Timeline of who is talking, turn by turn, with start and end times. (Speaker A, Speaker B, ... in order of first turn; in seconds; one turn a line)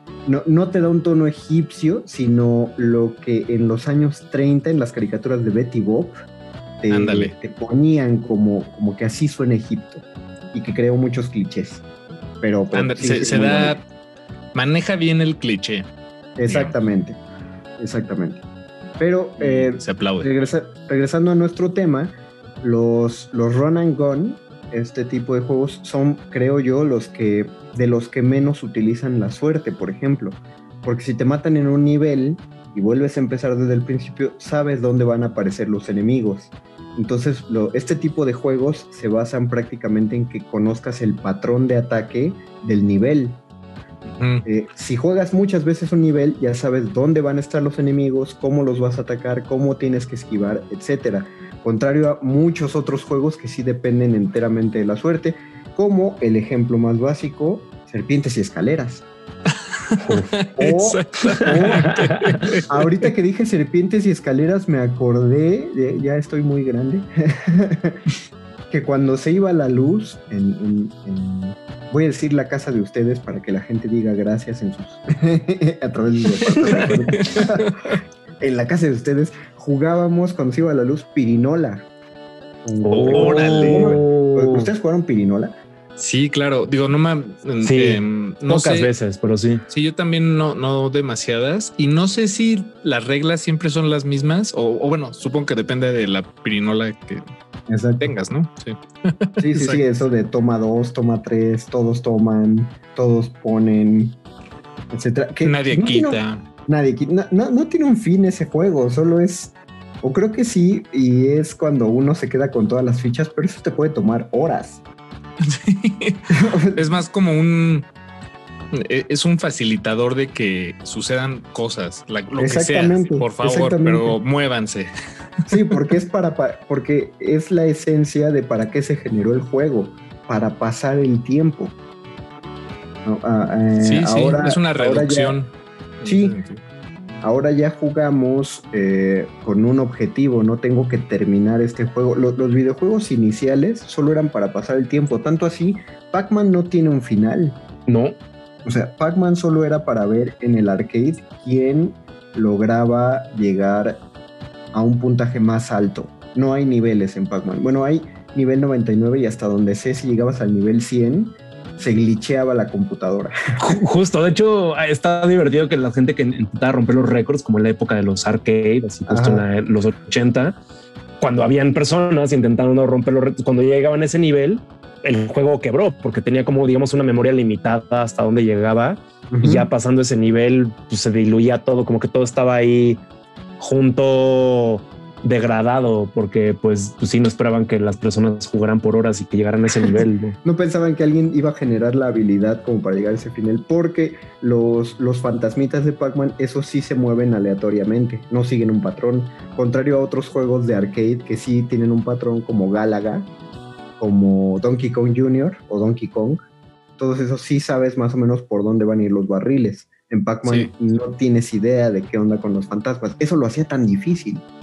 Speaker A: 0.2-6.2
Speaker A: 6.8-11.8
Speaker B: 6.9-7.3
Speaker A: 12.4-13.8
Speaker B: 12.7-13.8
Speaker B: 14.5-15.9
Speaker A: 16.4-17.2
Speaker B: 16.5-16.8
Speaker A: 17.8-18.4
Speaker A: 19.0-43.4
Speaker B: 19.4-20.3
Speaker B: 44.1-44.5
Speaker A: 44.5-59.0
Speaker B: 59.9-62.7
Speaker A: 60.6-61.9
Speaker A: 62.7-68.0
Speaker A: 68.7-77.7
Speaker B: 76.5-78.0
Speaker A: 78.4-81.9
Speaker A: 82.7-85.5
Speaker C: 82.9-84.7
Speaker B: 83.1-84.0
Speaker B: 86.0-88.9
Speaker C: 87.6-89.6
Speaker B: 89.7-97.2
Speaker A: 97.7-98.2
Speaker B: 98.0-99.8
Speaker A: 99.4-104.2
Speaker A: 104.9-114.8
Speaker B: 105.4-106.5
Speaker B: 115.4-117.9
Speaker A: 116.3-116.8
Speaker B: 118.7-124.9
Speaker A: 122.4-124.2
Speaker A: 125.5-131.8
Speaker A: 133.1-135.4
Speaker B: 133.8-136.6
Speaker A: 136.1-136.4
Speaker A: 137.2-147.6
Speaker C: 147.9-148.2
Speaker A: 148.7-154.0
Speaker A: 154.7-163.8
Speaker C: 163.6-170.6
Speaker A: 169.1-169.5
Speaker C: 171.2-183.0
Speaker A: 179.3-179.7
Speaker C: 183.6-190.4
Speaker A: 190.4-203.3
Speaker A: 204.0-206.4
Speaker A: 207.0-214.4
Speaker B: 210.4-210.7